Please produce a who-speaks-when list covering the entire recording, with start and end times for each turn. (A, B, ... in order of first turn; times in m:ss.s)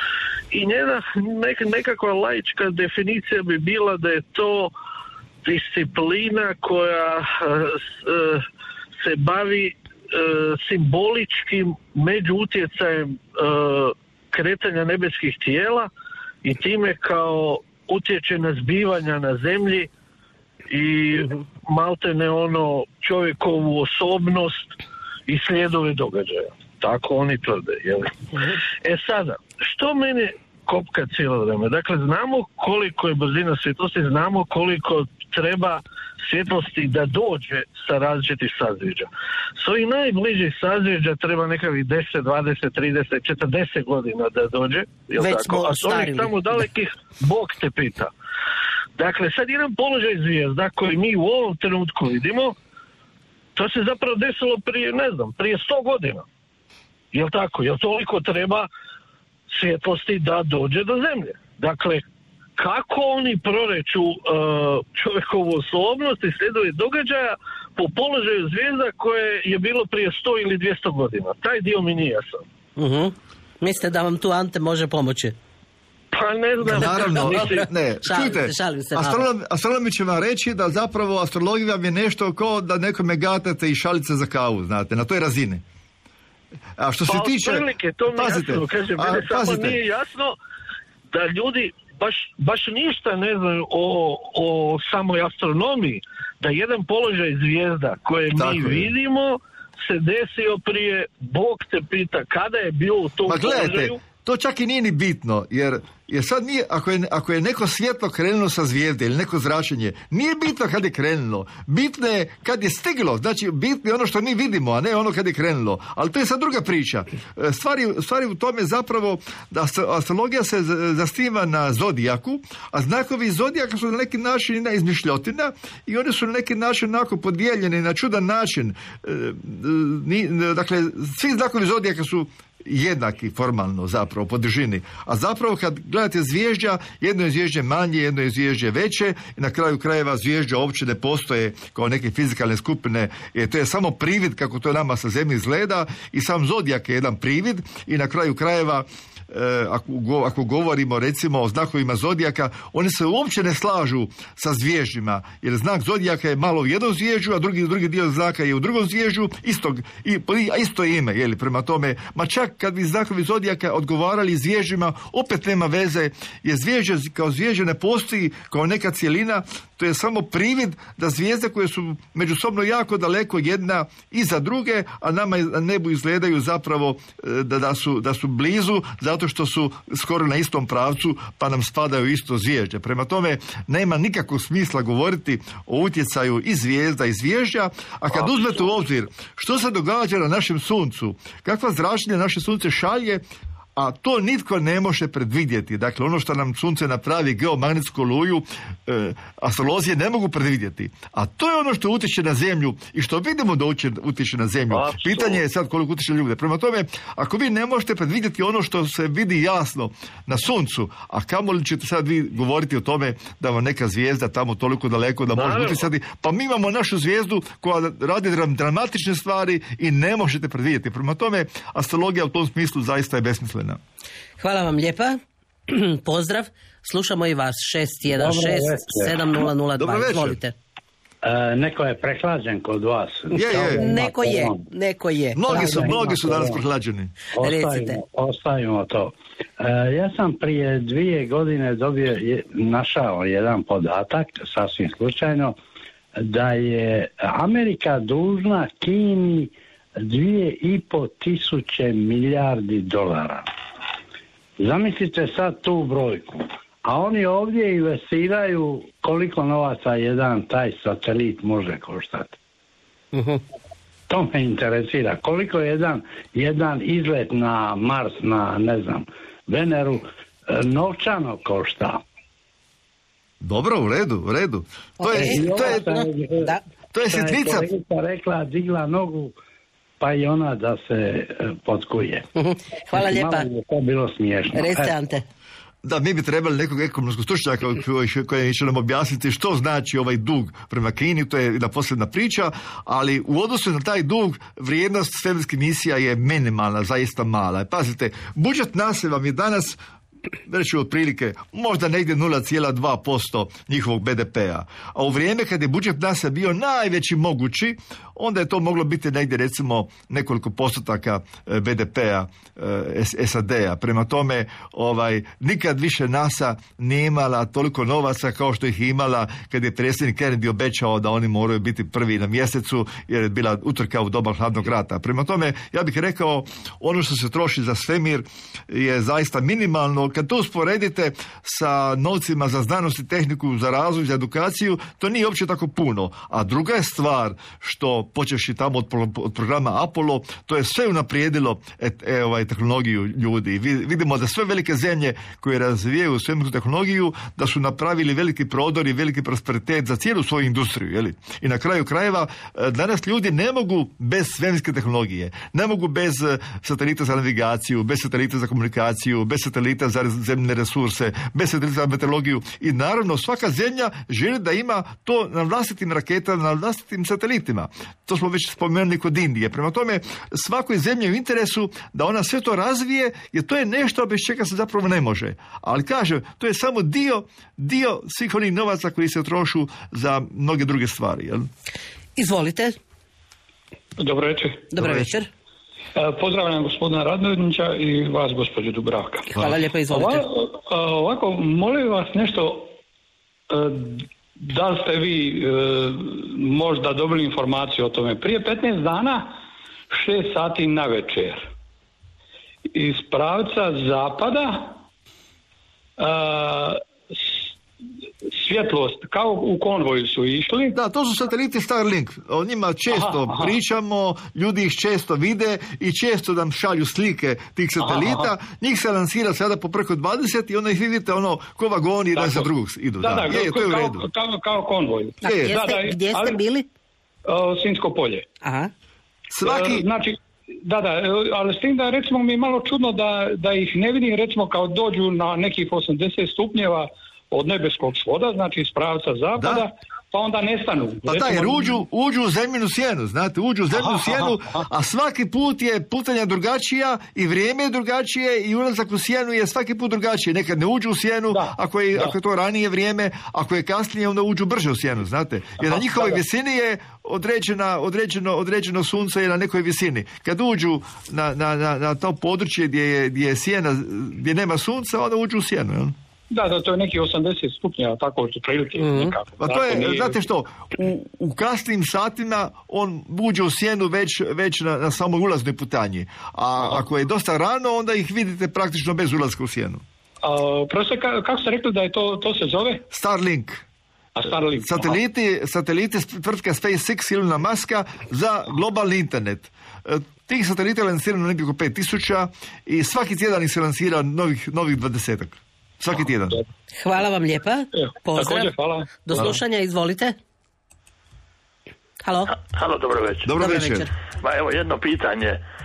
0:00.5-0:04.7 A
0:05.4-0:08.4 A
0:09.0-0:15.9 A
0:16.4-0:19.9 A
0:20.7-0:24.8 A
0:25.3-0:28.2 A
0:28.8-0:48.1 A
0:45.2-0:46.4 B
0:49.0-0:52.6 A
0:53.6-0:56.2 A
0:57.1-0:58.7 A
0:59.5-1:02.0 A
1:02.6-1:12.4 A
1:12.8-1:15.4 B
1:16.1-1:17.6 A
1:16.6-1:19.3 B
1:16.6-1:25.6 C
1:26.8-1:29.8 C
1:27.1-1:30.4 A
1:31.1-1:44.0 A
1:38.4-1:38.9 C
1:43.3-3:13.2 C
3:13.8-3:43.8 C
3:24.7-3:25.4 A
3:35.4-3:35.8 A
3:44.4-3:50.5 B
3:48.1-3:49.4 D
3:49.8-3:50.4 C
3:51.2-3:54.6 D
3:53.3-3:53.8 C
3:53.3-3:56.1 B
3:55.4-3:57.1 C
3:55.5-3:56.6 D
3:57.4-4:05.6 D
3:57.4-3:58.0 B
4:06.2-4:13.5 D
4:14.6-4:22.4 D
4:23.1-4:23.4 B
4:24.1-4:32.0 D
4:33.4-4:35.9 C
4:35.0-4:36.6 B
4:35.1-4:36.6 D
4:36.9-4:37.7 C
4:37.1-4:39.4 D
4:40.0-4:42.3 D
4:42.4-4:43.5 B
4:42.9-4:45.0 D
4:44.5-4:45.2 B
4:45.8-4:59.8 C
5:00.5-6:21.5 C
6:22.2-6:22.8 B
6:24.0-6:24.7 E
6:24.7-6:25.3 B
6:24.8-6:25.1 C
6:26.0-6:29.3 E
6:29.3-6:30.3 B
6:29.9-6:32.7 E
6:33.5-6:39.3 E
6:39.9-6:41.5 E
6:42.7-6:44.8 E
6:46.0-6:47.4 E
6:48.3-6:50.8 E
6:50.7-7:04.0 C
6:52.9-6:53.6 E
6:57.8-6:58.3 E
7:02.2-7:06.4 E
7:05.2-7:06.7 B
7:05.3-7:05.5 C
7:07.3-7:08.2 E
7:08.4-7:08.7 B
7:09.3-7:09.9 C
7:09.4-7:21.8 E
7:19.4-7:19.7 C
7:21.1-7:46.0 C
7:23.7-7:24.6 E
7:31.3-7:32.2 E
7:35.6-7:36.2 E
7:46.3-7:50.2 E
7:48.8-7:49.1 B
7:49.4-7:59.8 C
8:00.2-8:02.8 E
8:02.9-8:03.6 C
8:04.2-8:05.0 E
8:04.6-8:16.4 C
8:16.8-8:20.2 B
8:17.8-8:19.2 E
8:22.0-8:22.3 B
8:22.3-8:23.3 F
8:23.2-8:23.9 C
8:23.4-8:23.9 B
8:24.2-8:25.4 F